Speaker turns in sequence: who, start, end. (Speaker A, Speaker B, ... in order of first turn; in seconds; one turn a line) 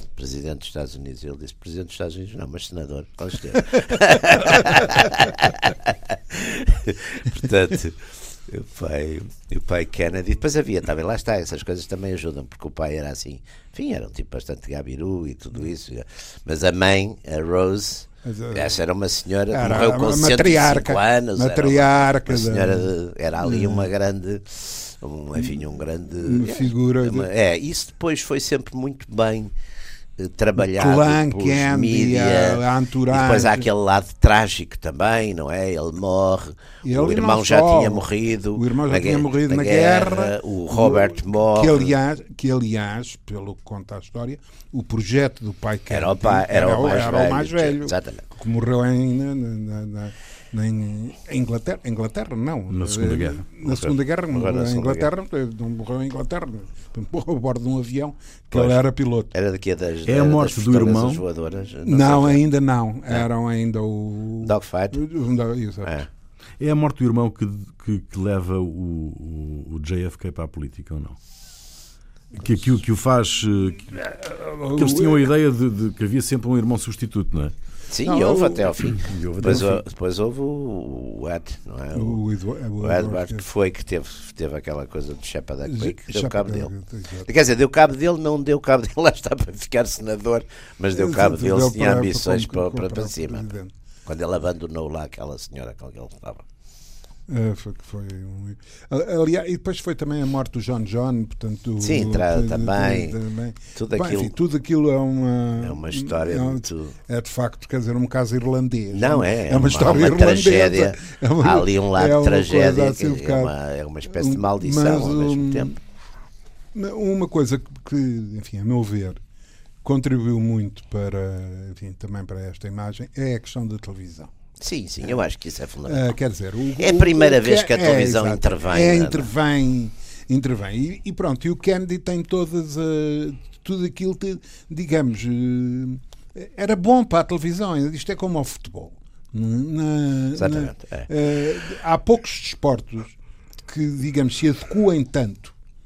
Speaker A: 0.1-29.5
Speaker B: 18.2-18.8
Speaker B: 19.5-23.9
Speaker B: 26.2-27.3
Speaker A: 30.2-41.9
Speaker B: 30.6-33.7
Speaker B: 36.8-59.3
Speaker A: 45.9-48.2
Speaker C: 52.7-53.5
Speaker A: 53.6-55.1
Speaker A: 58.5-58.8
Speaker A: 59.3-62.4
Speaker C: 60.0-61.2
Speaker B: 61.8-66.0
Speaker A: 64.4-65.0
Speaker C: 66.6-71.2
Speaker C: 72.3-74.1
Speaker B: 73.9-75.3
Speaker C: 74.7-77.5
Speaker A: 77.9-82.2
Speaker B: 78.0-78.7
Speaker C: 78.9-79.8
Speaker B: 79.4-79.7
Speaker B: 81.9-83.4
Speaker A: 82.8-86.7
Speaker B: 85.7-87.3
Speaker A: 87.2-93.5
Speaker B: 90.9-93.7
Speaker A: 94.0-96.4
Speaker B: 97.3-113.5
Speaker A: 101.8-103.2
Speaker A: 103.7-104.3
Speaker A: 105.6-107.0
Speaker A: 108.9-115.8
Speaker B: 114.1-115.7
Speaker B: 116.7-119.2
Speaker B: 119.8-124.3
Speaker A: 124.6-126.1
Speaker B: 125.8-145.5
Speaker A: 126.8-129.3
Speaker A: 140.3-141.1